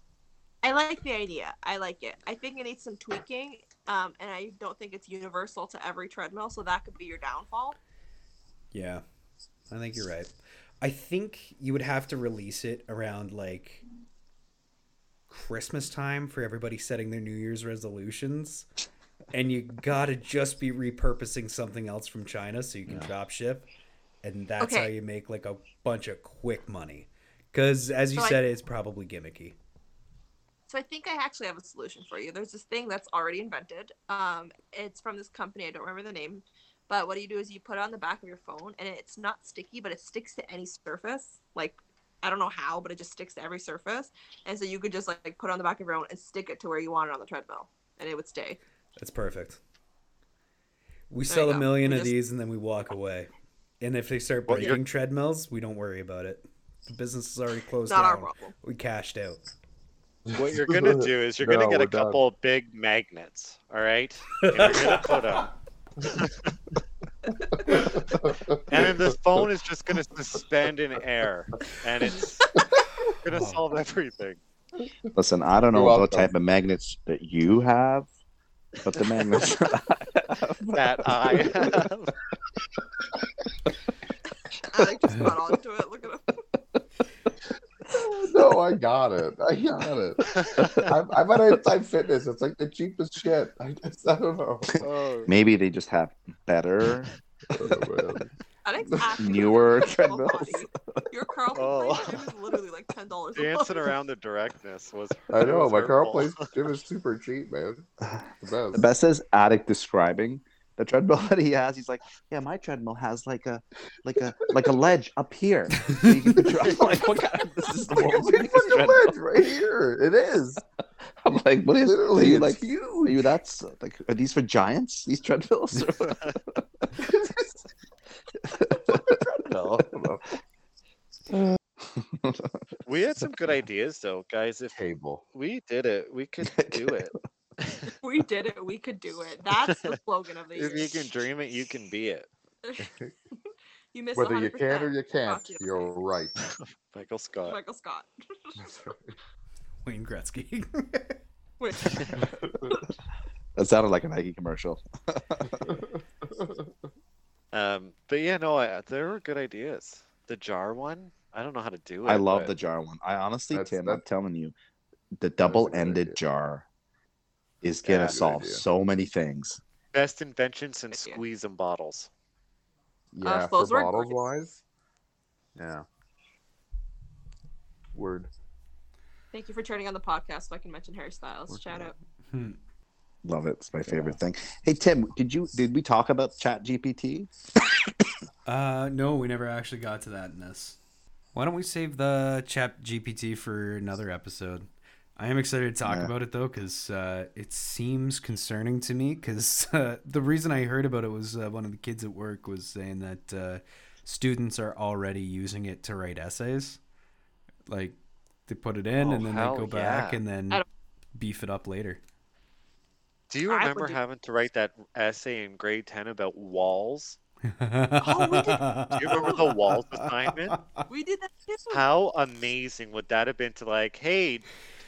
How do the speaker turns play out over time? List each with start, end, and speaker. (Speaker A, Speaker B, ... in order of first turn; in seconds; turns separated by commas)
Speaker A: 0.6-7.8, Speaker B: 8.7-9.0, Speaker B: 9.7-10.3, Speaker B: 10.8-13.8, Speaker B: 15.3-18.7, Speaker B: 19.3-23.7, Speaker B: 24.2-29.6, Speaker A: 24.6-24.9, Speaker A: 30.7-48.6, Speaker B: 49.0-49.6, Speaker B: 51.1-53.3, Speaker A: 51.3-52.1, Speaker B: 53.8-59.4, Speaker C: 54.5-54.8, Speaker A: 57.9-58.5, Speaker D: 60.3-62.2, Speaker C: 60.3-65.5, Speaker B: 64.4-65.0, Speaker C: 66.0-66.5, Speaker A: 67.3-67.8, Speaker D: 67.4-69.4, Speaker C: 67.7-68.1, Speaker C: 68.7-72.4, Speaker D: 72.7-73.1, Speaker C: 73.2-74.4, Speaker B: 73.3-73.6, Speaker E: 75.1-78.1, Speaker D: 75.7-76.3, Speaker E: 78.8-81.7, Speaker C: 80.7-82.1, Speaker A: 84.7-86.4, Speaker B: 85.1-85.3, Speaker D: 87.9-94.9, Speaker C: 90.3-90.9, Speaker E: 90.6-90.9, Speaker C: 94.8-95.3, Speaker E: 95.3-97.1, Speaker D: 97.5-98.3, Speaker A: 98.6-103.9, Speaker D: 98.9-99.3, Speaker E: 99.2-101.1, Speaker C: 101.5-102.2, Speaker C: 103.3-106.5, Speaker D: 105.3-108.8, Speaker E: 108.1-119.1, Speaker B: 115.8-116.2, Speaker D: 116.3-116.7, Speaker D: 117.9-120.6, Speaker E: 121.2-126.6, Speaker D: 121.8-123.2, Speaker C: 126.0-126.4, Speaker D: 127.0-127.5, Speaker E: 128.5-129.7, Speaker D: 128.9-130.2, Speaker E: 131.8-132.6, Speaker C: 132.8-134.8, Speaker D: 134.7-135.2, Speaker C: 135.3-137.1, Speaker E: 136.4-137.0, Speaker A: 138.0-141.0, Speaker C: 139.6-139.9, Speaker C: 140.5-142.3, Speaker A: 142.6-145.9, Speaker D: 142.8-143.1, Speaker D: 144.2-146.3, Speaker C: 146.4-147.6, Speaker A: 147.4-148.5, Speaker D: 148.6-149.2, Speaker B: 149.8-151.2, Speaker A: 151.6-152.8, Speaker D: 152.2-152.7, Speaker E: 153.6-155.6, Speaker D: 155.4-156.7, Speaker C: 157.5-162.5, Speaker E: 162.0-164.5, Speaker D: 163.5-164.0, Speaker E: 165.2-166.7, Speaker D: 165.4-166.2, Speaker E: 167.6-169.6, Speaker C: 167.8-168.2, Speaker D: 168.0-168.6, Speaker C: 169.9-172.1, Speaker A: 170.9-171.2, Speaker D: 173.1-174.6, Speaker A: 173.2-174.2, Speaker D: 175.6-175.8, Speaker D: 177.9-178.3, Speaker A: 179.3-181.9, Speaker D: 181.5-181.9, Speaker B: 182.3-182.6, Speaker E: 183.2-187.3, Speaker D: 183.8-184.2, Speaker B: 188.4-190.8, Speaker B: 191.3-206.8, Speaker E: 195.8-196.1, Speaker B: 207.7-207.9, Speaker B: 208.5-212.0, Speaker C: 209.0-210.2, Speaker C: 213.3-217.2, Speaker A: 213.5-214.0, Speaker B: 217.5-220.8, Speaker A: 218.0-219.5, Speaker C: 218.9-220.6, Speaker A: 220.9-221.8, Speaker C: 221.7-224.5